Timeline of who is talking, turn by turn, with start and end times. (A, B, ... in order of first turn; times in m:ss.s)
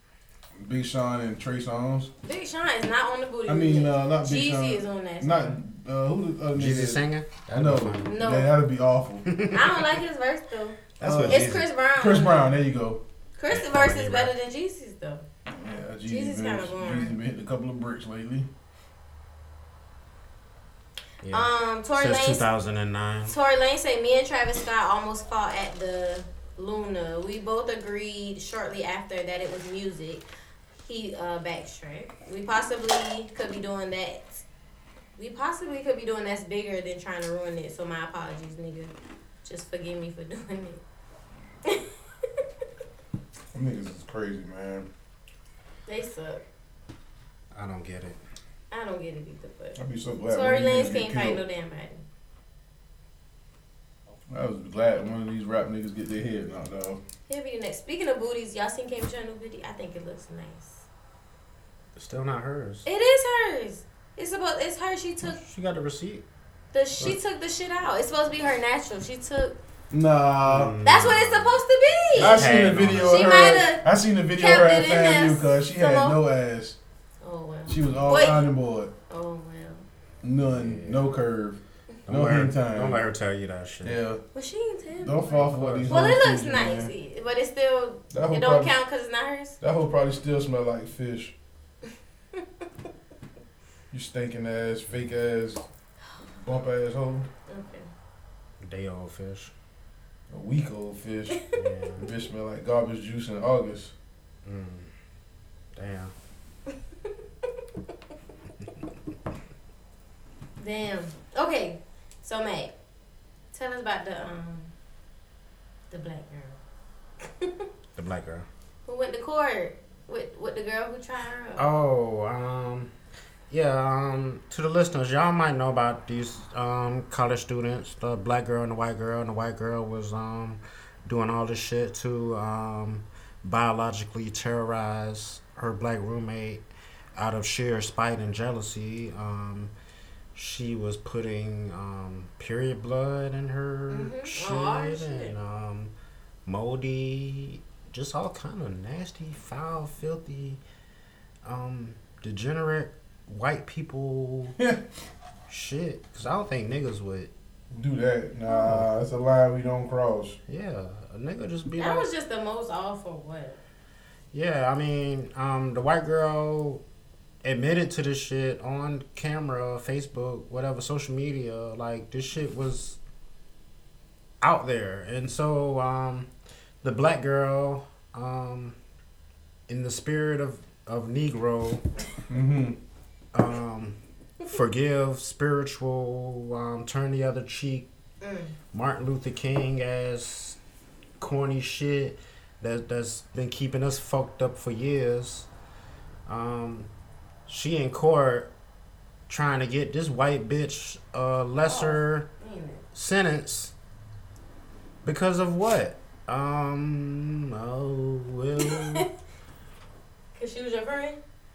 0:00.6-0:02.1 A
0:02.2-0:05.6 B
0:03.5-0:09.3 A
0:06.5-0:08.2 C
0:08.0-0:08.5 B
0:09.3-0:09.9 C
0:09.5-0:12.4 B
0:11.0-0:11.7 C
0:11.0-0:13.0 A
0:13.4-0:15.2 B
0:13.5-0:14.3 C
0:15.5-0:18.5 A
0:16.1-0:17.2 B
0:21.2-0:23.4 C
0:21.3-0:22.4 B
0:23.3-0:30.3 B
0:30.8-0:34.4 B
0:35.2-0:38.9 B
0:39.4-0:40.8 B
0:43.5-0:44.9 A
0:45.9-0:46.4 B
0:47.5-0:48.2 C
0:48.7-0:52.0 B
0:49.8-0:51.4 A
0:54.3-0:57.0 A
0:57.3-1:00.8 B
1:02.0-1:02.9 C
1:02.8-1:05.4 B
1:05.2-1:06.2 C
1:06.7-1:09.6 B
1:09.9-1:10.7 A
1:10.4-1:13.3 C
1:10.8-1:12.5 B
1:12.2-1:16.8 A
1:13.0-1:16.2 B
1:17.2-1:18.5 B
1:17.7-1:18.9 A
1:19.1-1:19.9 B
1:20.2-1:23.0 A
1:20.5-1:21.1 C
1:22.1-1:24.0 C
1:23.8-1:24.2 A
1:24.3-1:29.6 B
1:25.0-1:26.9 A
1:25.3-1:26.1 C
1:28.1-1:28.8 A
1:29.6-1:31.3 A
1:33.9-1:35.6 A
1:36.4-1:37.3 A
1:37.5-1:37.9 B
1:38.6-1:39.5 C
1:40.3-1:41.4 A
1:41.5-1:42.1 C
1:42.0-1:43.9 A
1:44.4-1:44.9 C
1:45.8-1:46.1 C
1:50.6-1:52.7 B
1:53.5-1:54.7 B
1:55.9-1:56.6 B
1:57.4-1:57.6 B
1:58.0-1:58.5 C
1:58.9-2:01.7 B
2:01.6-2:02.9 C
2:03.5-2:16.6 C
2:17.2-2:19.7 C
2:20.4-2:25.9 C
2:23.9-2:25.3 B
2:26.5-2:30.6 C
2:31.4-2:34.6 C
2:35.5-2:37.3 C
2:37.7-2:40.4 A
2:38.5-2:38.9 C
2:40.5-2:42.1 C
2:41.8-2:43.6 B
2:44.3-2:46.8 C
2:47.4-2:53.0 C
2:54.4-2:56.3 C
2:56.8-2:58.8 C
2:59.7-3:01.8 C
3:02.3-3:02.8 A
3:03.3-3:07.9 C
3:08.2-3:08.5 B
3:08.7-3:10.6 C
3:11.2-3:15.5 C
3:16.3-3:16.9 C
3:17.5-3:18.5 C
3:19.3-3:22.3 C
3:21.6-3:22.8 B
3:22.9-3:23.7 C
3:25.0-3:29.1 C
3:28.6-3:29.0 B
3:30.4-3:31.2 B